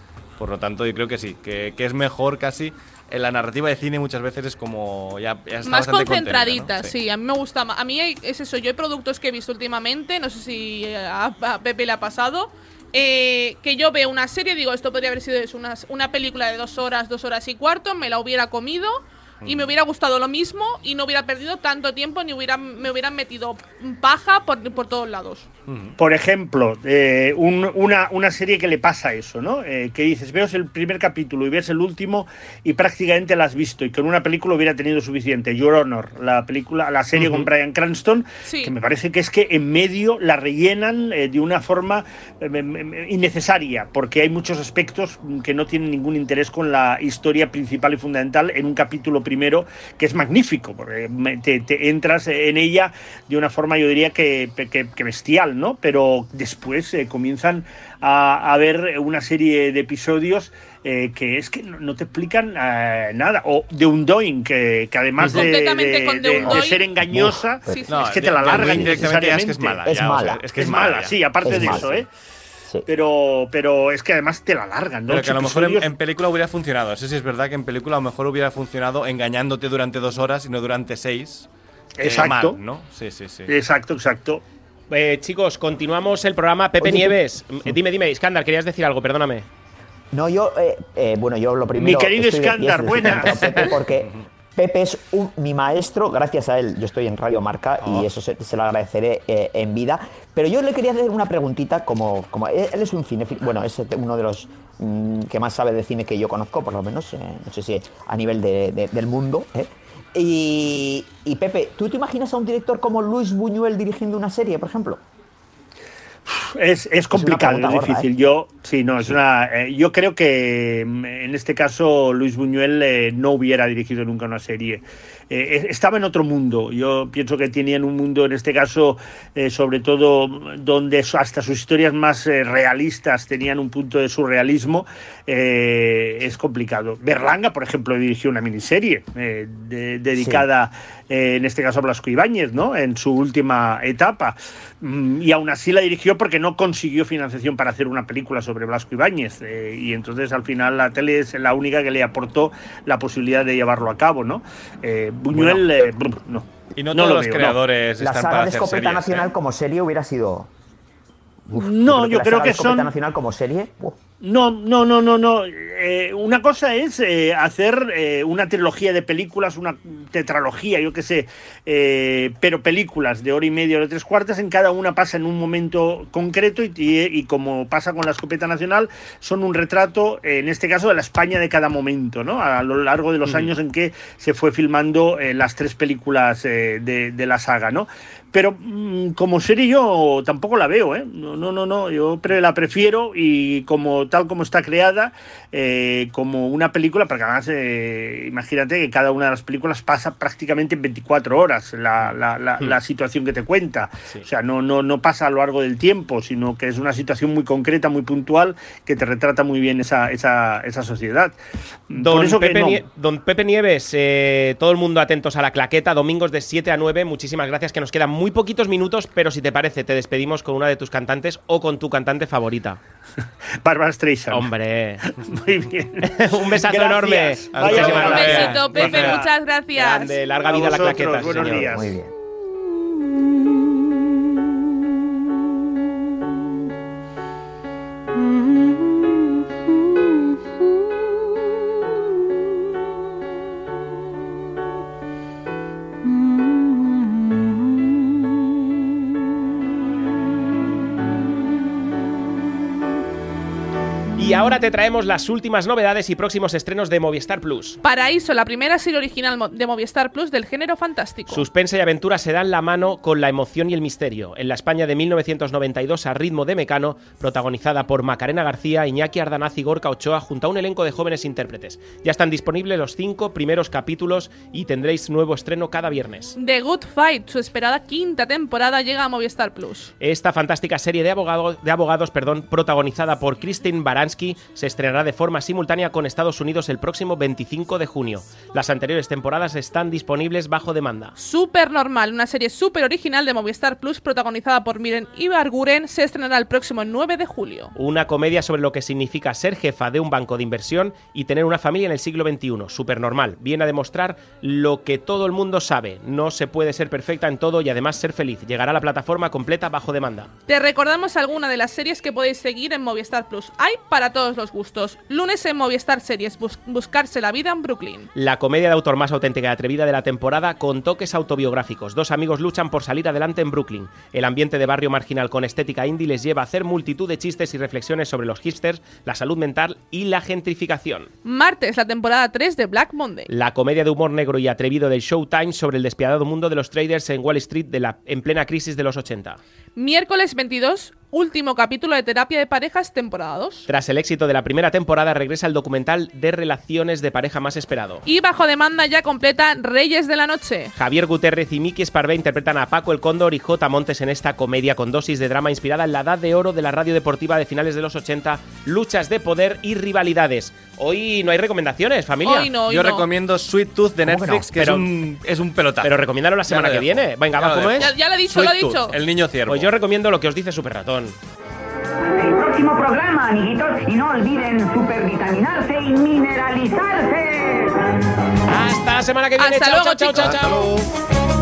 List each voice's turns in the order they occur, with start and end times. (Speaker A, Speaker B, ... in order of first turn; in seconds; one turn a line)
Speaker A: 0.4-6.9
Speaker B: 5.6-25.5
Speaker A: 19.4-19.7
Speaker A: 25.7-26.0
Speaker C: 26.0-69.8
Speaker B: 38.5-38.7
Speaker B: 65.2-66.9
Speaker D: 66.4-67.9
Speaker B: 67.7-68.2
Speaker A: 67.9-72.0
Speaker D: 68.4-69.2
Speaker D: 69.8-70.4
Speaker C: 70.5-72.1
Speaker D: 71.4-72.0
Speaker C: 72.9-75.9
Speaker A: 75.1-81.5
Speaker C: 82.0-82.6
Speaker A: 82.0-83.5
Speaker C: 83.5-84.4
Speaker E: 84.9-89.5
Speaker D: 86.8-87.2
Speaker D: 90.1-115.0
Speaker C: 91.8-93.6
Speaker C: 116.3-157.6
Speaker D: 117.1-118.1
Speaker D: 140.2-140.5
Speaker A: 156.8-159.3
Speaker D: 158.0-160.5
Speaker D: 161.5-164.0
Speaker C: 161.5-162.9
Speaker C: 164.2-211.4
Speaker E: 183.2-183.5
Speaker C: 211.9-212.8
Speaker E: 212.0-222.8
Speaker C: 223.6-224.5
Speaker E: 224.3-225.0
Speaker C: 225.0-229.3
Speaker E: 226.0-229.2
Speaker A: 227.5-229.2
Speaker B: 227.8-230.2
Speaker E: 229.8-231.8
Speaker C: 230.3-231.9
Speaker D: 231.4-232.1
Speaker E: 254.2-257.8
Speaker B: 257.8-261.5
Speaker E: 261.3-276.4
Speaker B: 276.4-279.9
Speaker E: 280.0-291.1
Speaker B: 291.2-297.7
Speaker E: 297.8-310.3
Speaker B: 310.5-318.1
Speaker E: 318.1-331.1
Speaker B: 331.2-333.3
Speaker E: 333.3-339.4
Speaker B: 339.8-343.7
Speaker E: 343.7-348.0
Speaker B: 348.1-350.7
Speaker E: 350.8-362.5
Speaker B: 362.2-363.1
Speaker A: 362.7-369.7
Speaker D: 364.0-364.6
Speaker E: 364.6-364.9
Speaker E: 365.8-367.9
Speaker B: 367.8-369.0
Speaker E: 369.5-371.2
Speaker F: 372.1-377.9
Speaker E: 378.5-380.7
Speaker B: 379.4-380.4
Speaker A: 380.2-380.9